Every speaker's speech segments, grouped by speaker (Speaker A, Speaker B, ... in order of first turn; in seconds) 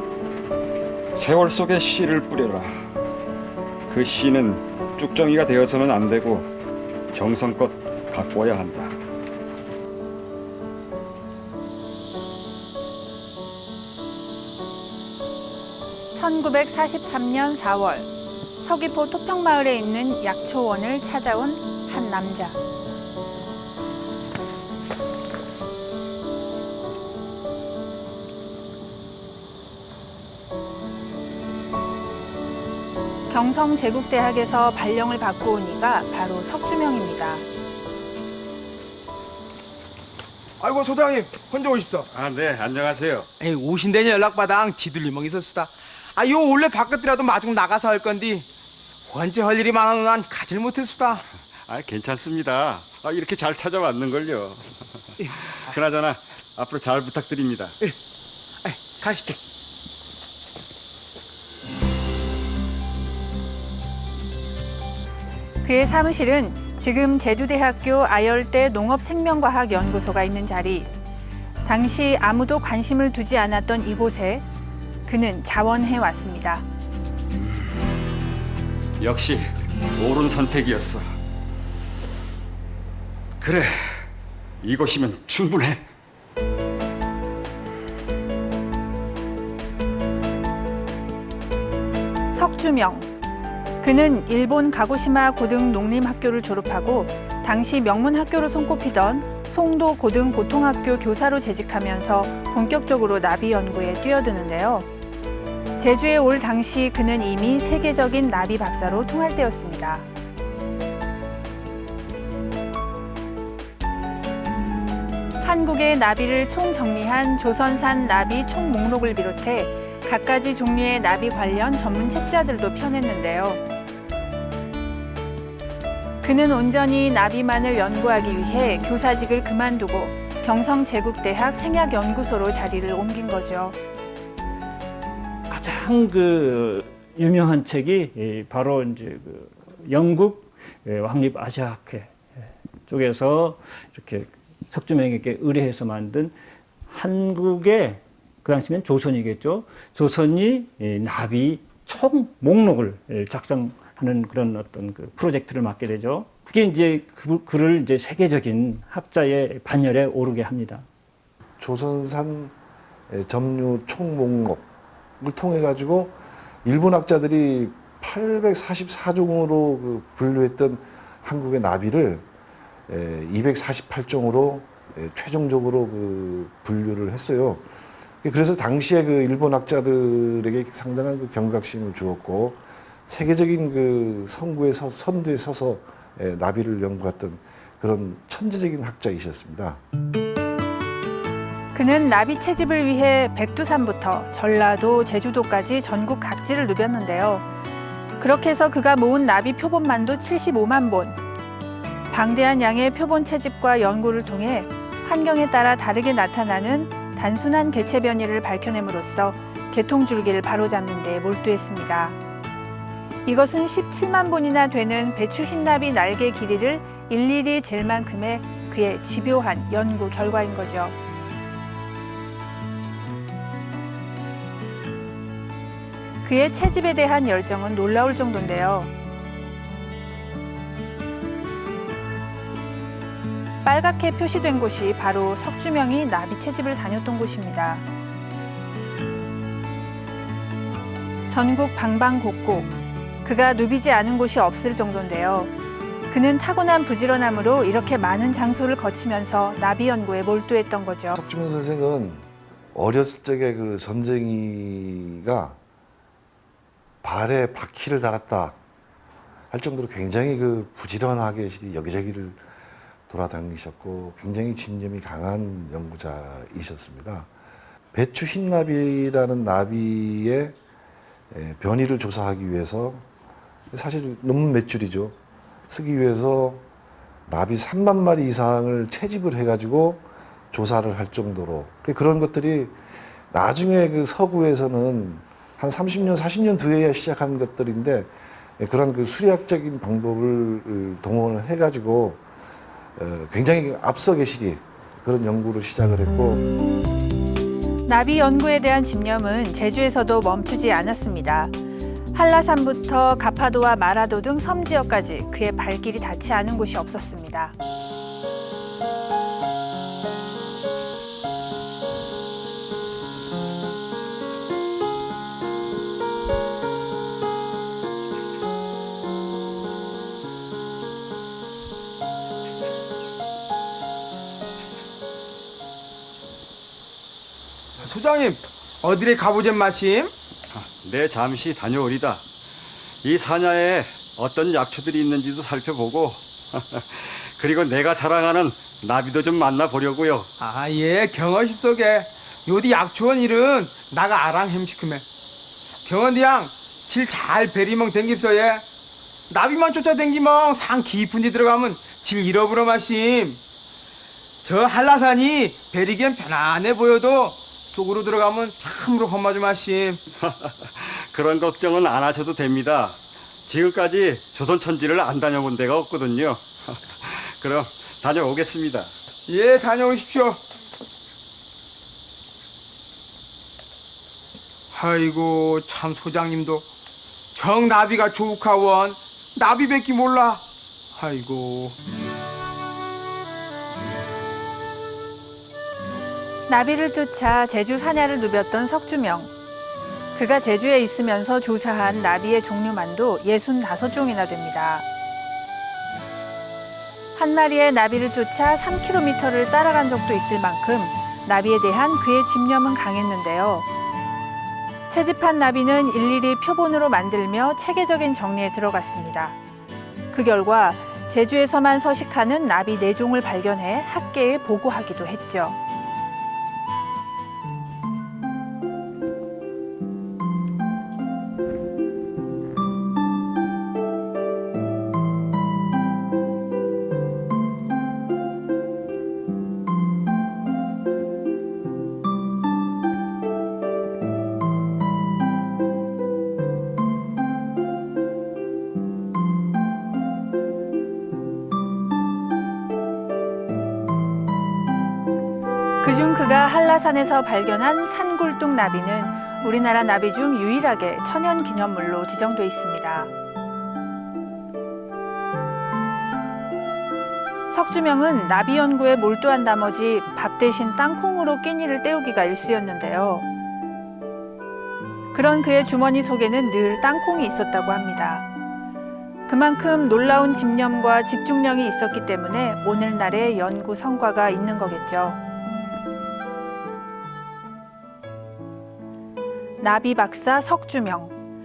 Speaker A: 1.1-2.9, 3.9-6.5, 7.1-9.0, 42.1-43.3, 51.7-54.7, 55.2-57.8, 79.0-81.1, 83.4-84.1, 84.6-85.9, 330.5-332.2, 333.0-340.3, 360.2-368.9
Speaker B: 16.2-18.1, 18.6-22.6, 33.3-37.5, 65.6-70.9, 71.7-74.4, 75.1-76.7, 92.3-93.1, 93.8-104.9, 105.8-110.1, 115.4-123.6, 126.2-133.8, 191.8-197.5, 198.2-201.2, 202.1-212.2, 213.3-221.0, 226.2-228.9, 233.6-237.8, 241.3-245.5, 246.1-251.2, 297.9-301.6, 302.1-307.6, 386.5-389.3, 390.1-394.9, 397.2-403.7, 404.9-409.4, 410.1-415.6, 445.8-453.1, 457.5-463.3, 465.1-468.3, 469.3-475.2, 479.6-481.2
Speaker C: 40.6-42.1, 43.4-48.5, 49.1-51.2, 58.6-59.4, 327.8-330.1, 340.4-345.1, 345.8-348.7, 349.3-353.4, 354.4-360.0, 369.3-370.4, 374.7-376.7, 377.3-381.8
Speaker D: 135.5-142.1, 142.9-146.3, 146.9-160.9
Speaker E: 161.6-162.5, 163.1-164.7, 165.2-172.2, 172.9-177.7, 178.2-189.8, 251.2-255.6, 257.0-258.6, 259.5-262.4, 263.1-267.3, 267.9-270.6, 271.3-273.1, 273.7-275.1, 275.7-276.6, 277.3-282.8, 283.3-292.2, 293.0-296.4